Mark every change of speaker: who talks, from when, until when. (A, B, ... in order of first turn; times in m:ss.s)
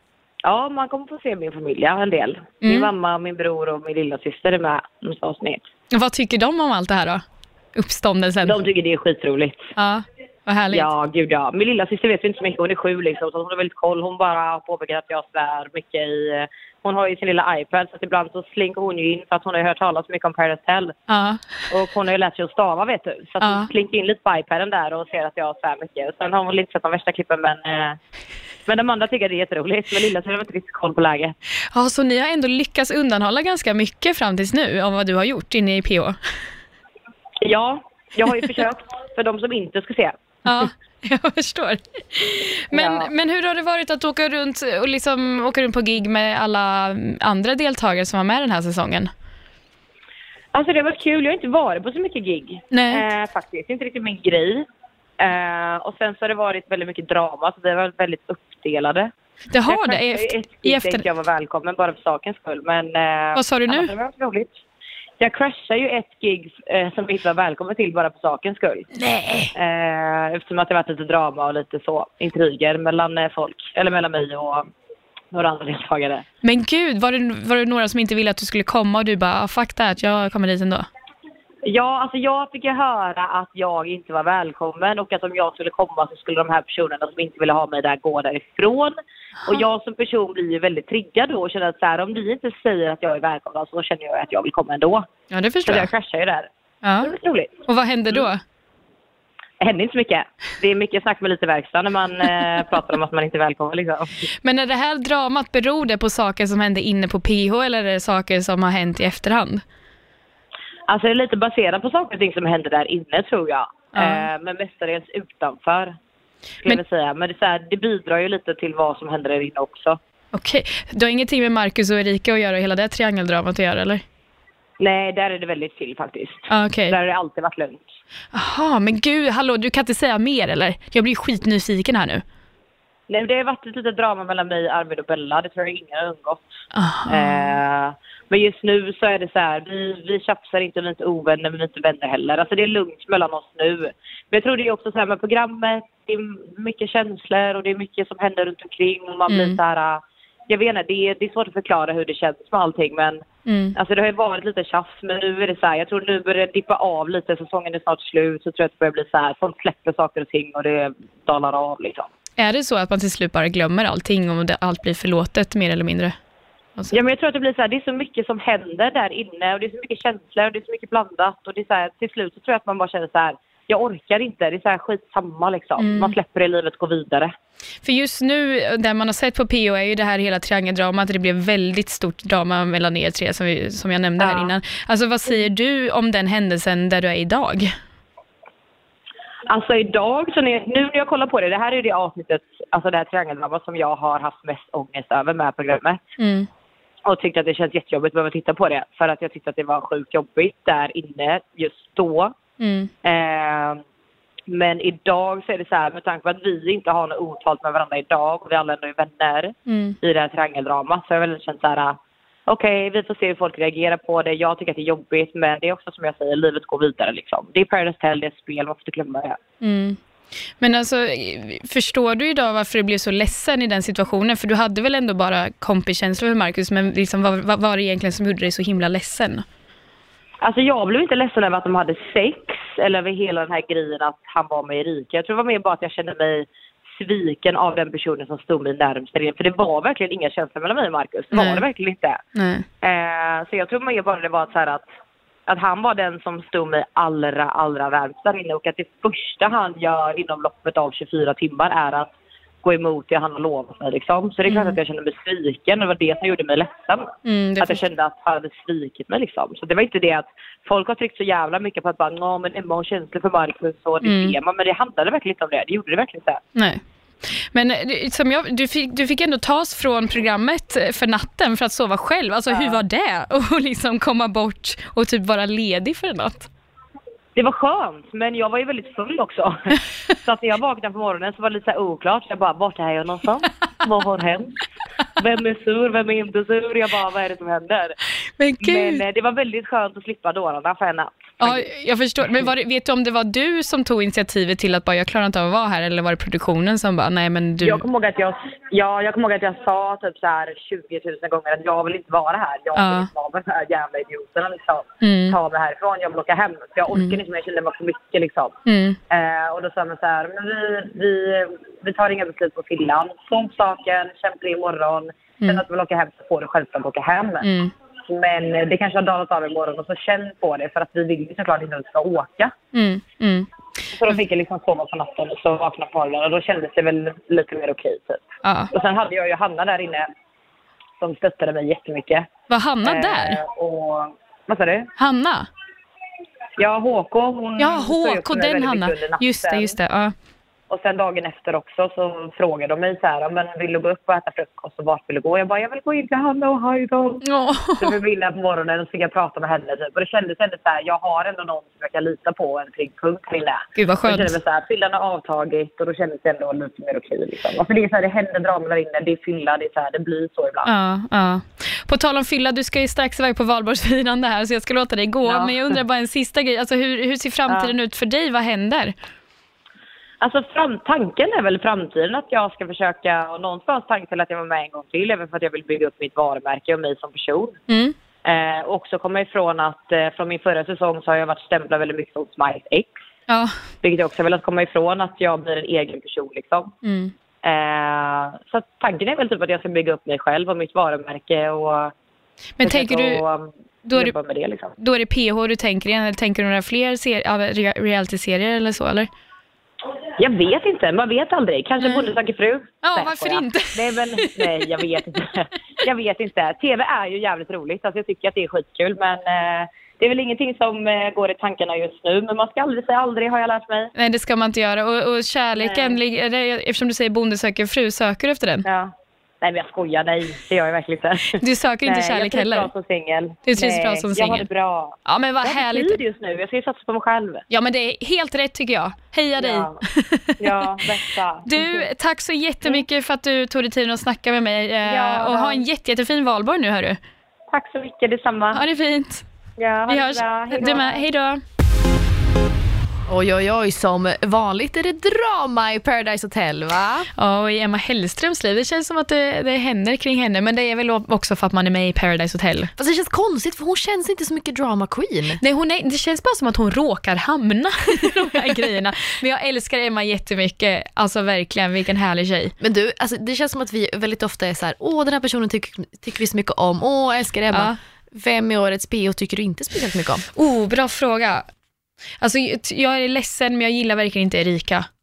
0:00.4-0:05.7 A
0:02.6-0:02.9 B
0:05.9-0:07.2 B
0:07.8-0:08.6 B
0:08.4-0:09.7 A
0:09.8-0:10.9 B
0:10.7-0:21.0 A
0:21.1-0:21.4 B
0:21.7-0:28.0 A
0:23.4-0:23.7 B
0:28.7-0:31.4 A
0:31.7-0:36.2 B
0:37.4-0:40.7 A
0:40.5-0:49.1 B
0:42.7-0:43.1 A
0:50.5-0:54.7 A
0:52.7-0:53.0 B
0:55.2-0:59.1 A
0:59.5-1:01.1 B
0:59.7-1:04.6 A
1:03.4-1:03.9 B
1:05.2-1:08.9 A
1:09.0-1:09.5 B
1:09.6-1:14.7 A
1:15.3-1:16.2 A
1:16.4-1:20.9 B
1:21.6-1:35.1 A
1:35.3-1:35.9 B
1:35.7-1:36.5 A
1:36.8-1:37.1 B
1:37.0-1:37.5 A
1:37.7-1:38.4 B
1:39.6-1:44.1 A
1:44.4-1:49.6 B
1:50.9-1:56.0 A
1:54.0-1:54.3 B
1:56.6-2:00.0 A
2:00.3-2:04.0 B
2:04.8-2:07.9 A
2:06.5-2:07.0 B
2:08.3-2:12.2 B
2:13.1-2:16.5 A
2:16.7-2:17.5 B
2:17.1-2:33.2 A
2:29.3-2:29.6 B
2:33.5-2:33.7 B
2:33.8-2:42.1 A
2:42.4-2:46.2 B
2:46.9-2:57.3 A
2:55.8-2:56.2 B
2:57.8-3:07.7 B
3:04.2-3:04.5 A
3:09.5-3:16.0 A
3:16.2-3:16.5 B
3:17.1-3:22.4 A
3:22.6-3:22.9 B
3:23.0-3:23.8 A
3:24.5-3:39.4 A
3:29.7-3:30.0 B
3:39.6-3:40.0 B
3:40.6-3:49.4 B
3:50.4-4:02.2 A
4:01.3-4:01.6 B
4:02.4-4:02.7 B
4:02.8-4:04.9 A
4:05.5-4:12.1 A
4:12.6-4:26.4 A
4:14.5-4:14.8 B
4:17.2-4:17.8 B
4:24.0-4:24.4 B
4:26.6-4:36.5 B
4:32.5-4:32.8 A
4:37.4-4:44.6 A
4:45.2-4:48.0 A
4:48.4-4:49.0 B
4:48.6-4:51.7 A
4:51.4-4:57.9 B
4:57.6-5:08.6 A
5:02.8-5:03.1 B
5:05.0-5:05.4 B
5:08.7-5:09.0 B
5:09.1-5:17.4 A
5:17.4-5:17.7 B
5:18.1-5:22.5 A
5:22.7-5:23.5 B
5:24.0-5:30.1 A
5:28.4-5:28.7 B
5:31.0-5:32.3 A
5:32.5-5:33.4 B
5:32.8-5:34.9 A
5:35.0-5:35.5 B
5:36.6-5:39.8 A
5:37.6-5:40.2 B
5:40.7-5:47.2 A
5:47.2-5:48.0 B
5:47.8-6:00.7 A
5:53.8-5:54.4 B
6:00.6-6:09.0 B
6:05.2-6:05.8 A
6:07.5-6:07.7 A
6:10.2-6:17.6 A
6:17.7-6:18.0 B
6:18.2-6:22.9 A
6:23.3-6:23.5 B
6:23.8-6:26.7 A
6:26.8-6:27.1 B
6:27.4-6:31.9 A
6:32.6-6:33.2 B
6:32.6-6:34.7 A
6:33.9-6:34.2 B
6:34.8-6:39.1 B
6:40.2-6:53.9 A
6:41.8-6:42.1 B
6:42.8-6:44.6 B
6:54.0-6:58.7 B
6:55.6-6:56.0 A
6:58.6-7:07.4 A
7:01.4-7:02.7 B
7:03.5-7:04.5 B
7:05.0-7:06.0 B
7:07.5-7:10.7 B
7:09.4-7:09.8 A
7:10.4-7:11.9 A
7:11.4-7:17.0 B
7:14.8-7:15.6 A
7:17.5-7:18.6 A
7:18.5-7:19.2 B
7:19.6-7:21.0 A
7:19.9-7:21.4 B
7:23.1-7:27.1 C
7:27.2-7:32.7 B
7:32.8-7:35.4 C
7:35.4-7:42.5 B
7:42.6-7:50.2 C
7:50.4-7:51.5 B
7:52.2-7:54.9 B